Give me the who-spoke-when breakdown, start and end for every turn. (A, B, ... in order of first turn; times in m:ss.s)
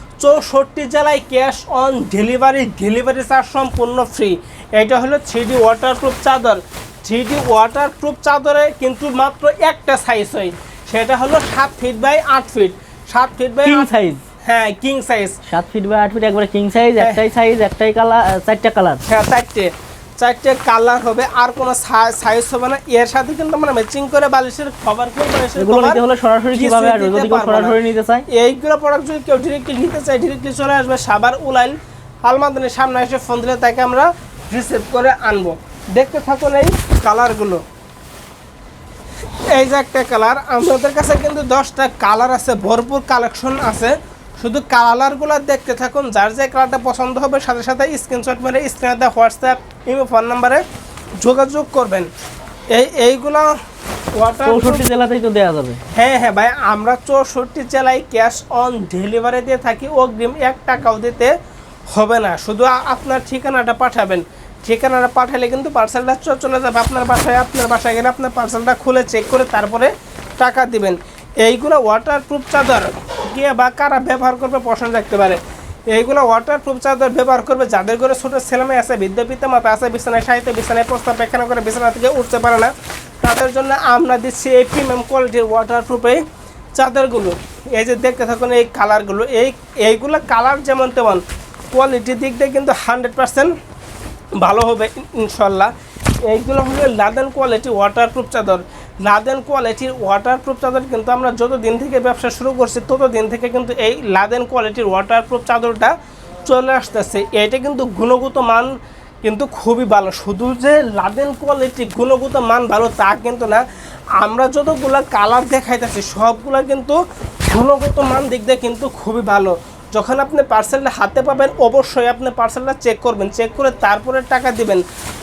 0:00.2-0:13.9 A
0:13.6-0:14.2 B
0:14.4-0:15.4 A
0:15.5-0:19.0 B
0:19.1-0:26.0 A
0:25.6-0:28.3 B
0:26.6-0:27.8 A
0:28.3-0:37.6 A
0:39.5-0:50.6 A
0:51.2-0:52.1 A
0:52.7-0:53.5 A
0:54.2-0:54.8 A
0:54.5-0:55.8 B
0:55.9-1:01.3 A
1:01.9-1:15.4 A
1:15.9-1:22.7 A
1:23.2-1:26.2 A
1:26.8-1:33.5 A
1:34.4-1:35.7 A
1:36.2-1:45.9 A
1:46.5-1:53.6 A
1:54.2-2:04.8 A